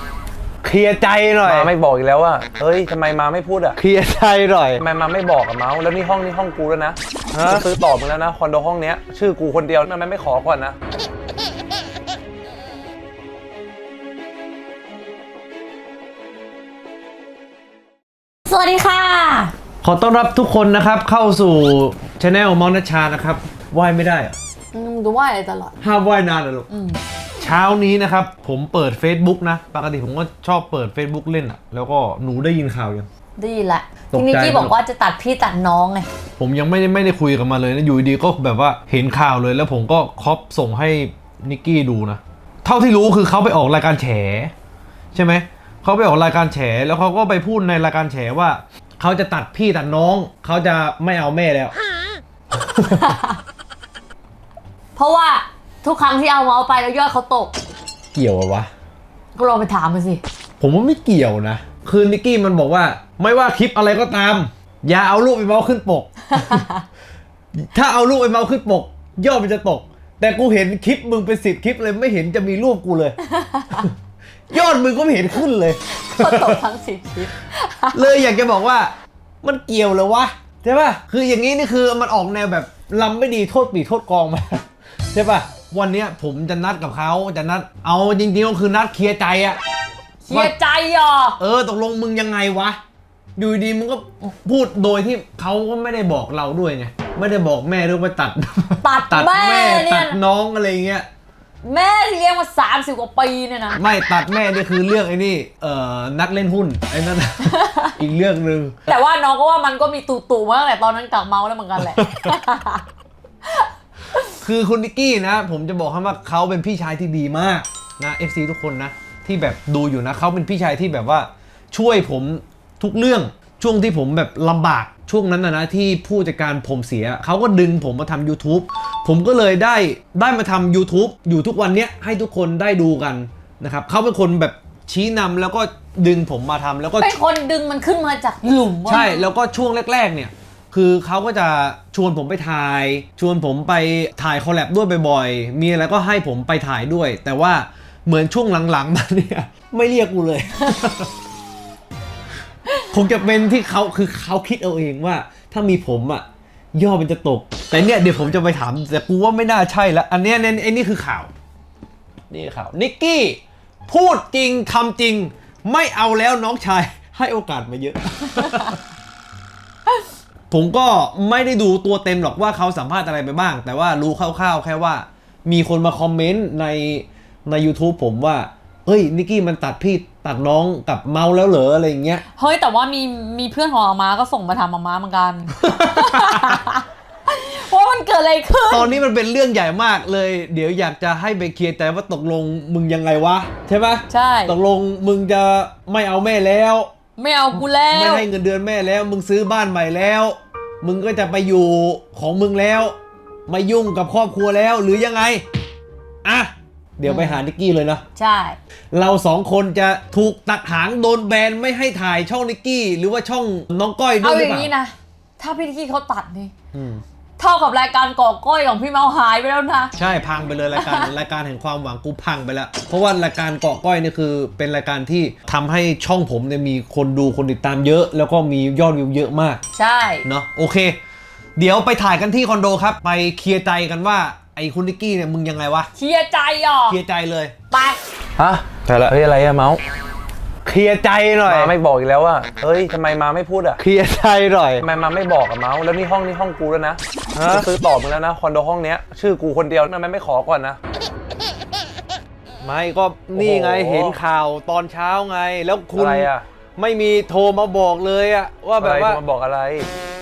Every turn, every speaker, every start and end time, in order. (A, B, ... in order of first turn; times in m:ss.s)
0:00.6-0:01.7 A
0:01.4-0:03.8 B
0:03.8-0:04.8 A
0:04.8-0:10.8 B
0:07.3-0:07.6 A
0:18.5-0:19.5 C
0:19.8-0:24.4 A
0:24.7-0:25.8 C
0:25.8-0:26.7 A
0:26.7-0:27.0 C
0:27.4-0:33.1 A
0:33.4-0:36.1 C
0:34.1-0:34.8 A
0:36.4-0:44.5 A
0:45.1-0:51.7 A
0:52.5-0:53.1 A
0:52.9-0:53.4 C
0:55.0-0:57.5 C
0:58.1-0:58.7 A
0:59.3-1:00.2 C
1:00.6-1:06.6 A
1:06.4-1:06.8 C
1:07.6-1:13.2 A
1:13.4-1:13.9 C
1:14.5-1:16.6 A
1:16.0-1:18.1 C
1:17.9-1:29.6 A
1:30.2-1:31.4 C
1:31.4-1:32.8 A
1:33.4-1:41.1 A
1:38.8-1:40.2 C
1:41.6-1:43.8 C
1:43.7-1:48.9 A
1:47.5-1:47.9 C
1:48.9-1:52.8 C
1:51.8-1:52.3 A
1:53.5-1:54.3 C
1:54.4-2:17.1 A
2:17.0-2:19.2 C
2:18.8-2:31.1 A
2:32.9-2:41.3 A
2:42.3-2:48.8 A
2:50.5-3:02.2 A
3:02.4-3:09.0 C
3:05.6-3:06.6 A
3:08.7-3:16.9 A
3:14.1-3:14.6 C
3:17.2-3:18.3 C
3:17.5-3:25.4 A
3:26.2-3:28.0 A
3:27.0-3:27.4 C
3:28.1-3:28.6 C
3:28.9-3:34.7 A
3:34.2-3:36.5 C
3:36.7-3:37.0 A
3:37.4-3:39.9 C
3:40.0-3:49.6 A
3:40.7-3:41.1 C
3:49.7-3:50.2 C
3:50.2-3:51.0 A
3:51.6-3:55.9 A
3:55.9-3:57.0 C
3:56.9-3:57.5 A
3:57.7-3:58.0 C
3:58.4-3:59.8 B
3:58.8-3:59.1 A
4:00.6-4:01.8 A
4:01.4-4:03.8 B
4:03.8-4:04.8 A
4:04.8-4:10.8 B
4:07.3-4:07.7 A
4:12.6-4:19.2 A
4:13.3-4:14.2 B
4:15.9-4:16.4 B
4:18.8-4:19.9 B